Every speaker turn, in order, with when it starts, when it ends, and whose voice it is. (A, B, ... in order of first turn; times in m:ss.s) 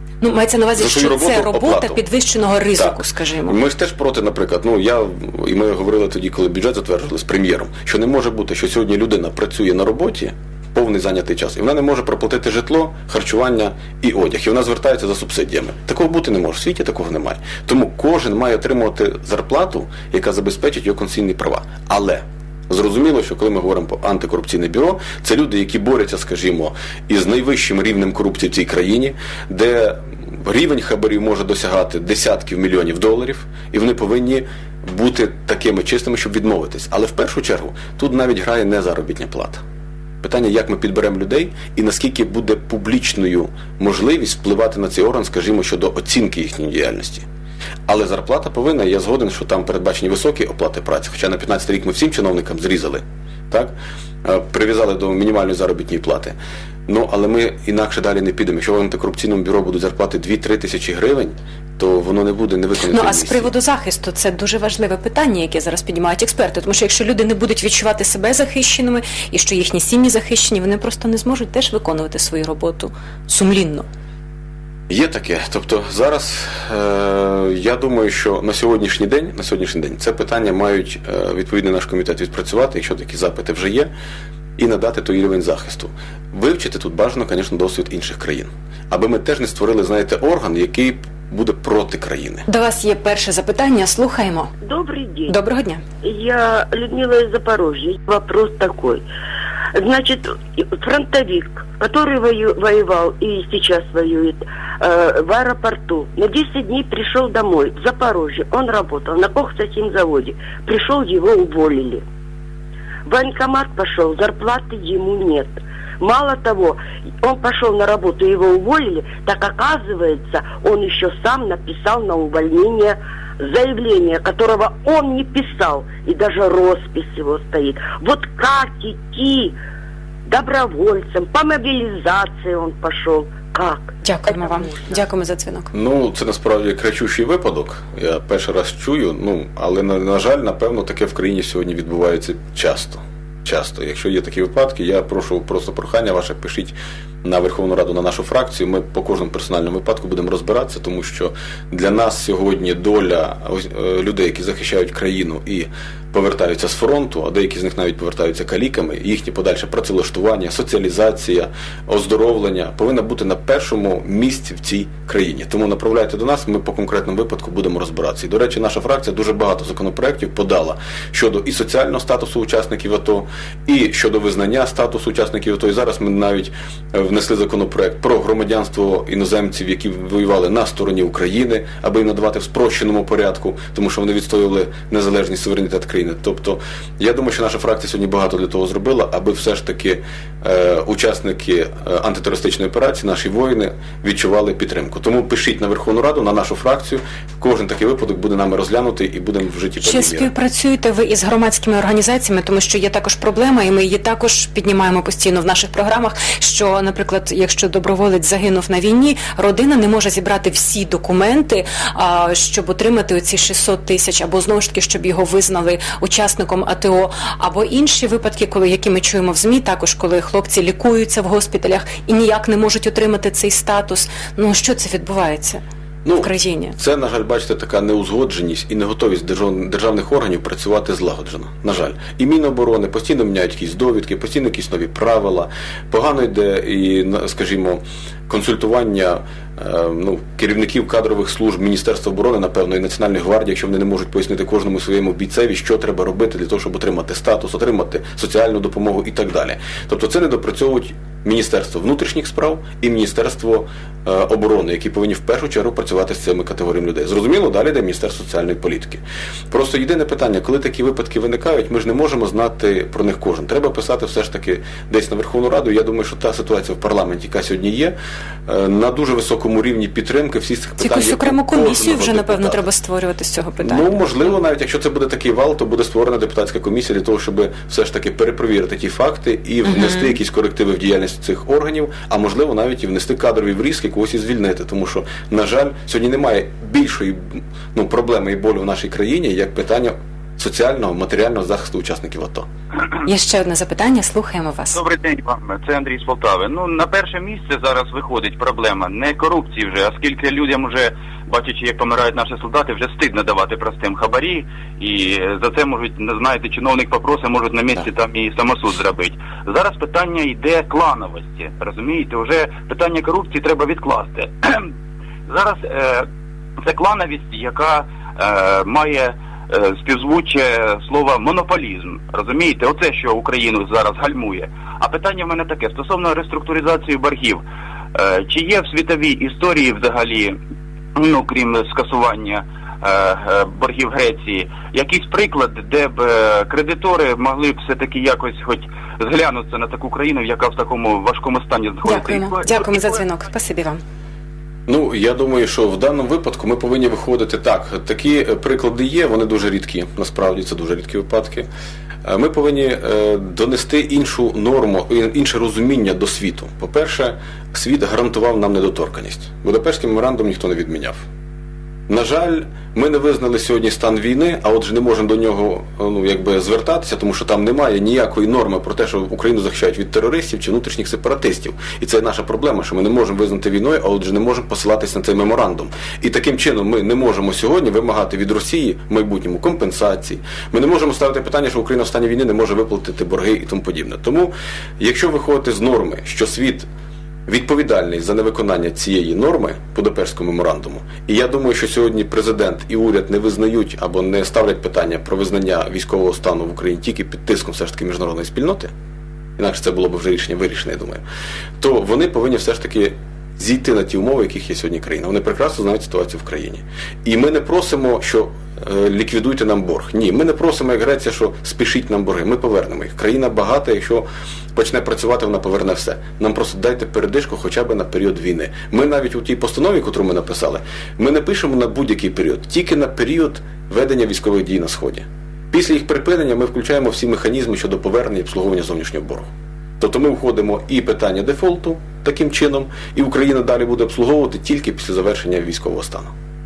0:00.2-0:03.6 A
0:00.8-0:02.0 B
0:02.8-0:39.6 B
0:40.2-0:47.2 B
0:47.9-0:53.7 B
0:54.2-0:56.4 B
0:56.9-1:03.5 B
1:02.9-1:13.9 A
1:14.9-1:23.9 B
1:24.6-1:32.4 B
1:32.5-1:34.5 A
1:34.6-1:35.4 C
1:35.3-1:35.8 A
1:36.0-1:39.0 C
1:39.7-1:52.0 C
1:53.1-2:09.6 C
2:10.3-2:14.0 C
2:14.0-2:15.7 A
2:15.7-3:20.3 B
3:19.8-3:45.6 A
3:46.0-4:28.0 B
3:46.2-3:46.8 A
4:28.5-4:32.6 B
4:30.8-4:33.9 A
4:33.6-4:47.2 B
4:39.7-4:40.0 A
4:47.7-4:52.5 B
4:53.0-4:54.8 A
4:54.7-5:14.7 D
5:15.3-5:16.1 D
5:16.6-5:27.4 D
5:27.9-5:30.4 D
5:31.0-5:42.7 D
5:41.9-5:43.8 A
5:44.7-5:51.5 B
5:52.0-6:01.0 B
6:01.9-6:26.7 B
6:27.3-6:38.7 B
6:39.4-6:41.0 B
6:41.6-7:09.3 B
7:09.8-7:16.1 B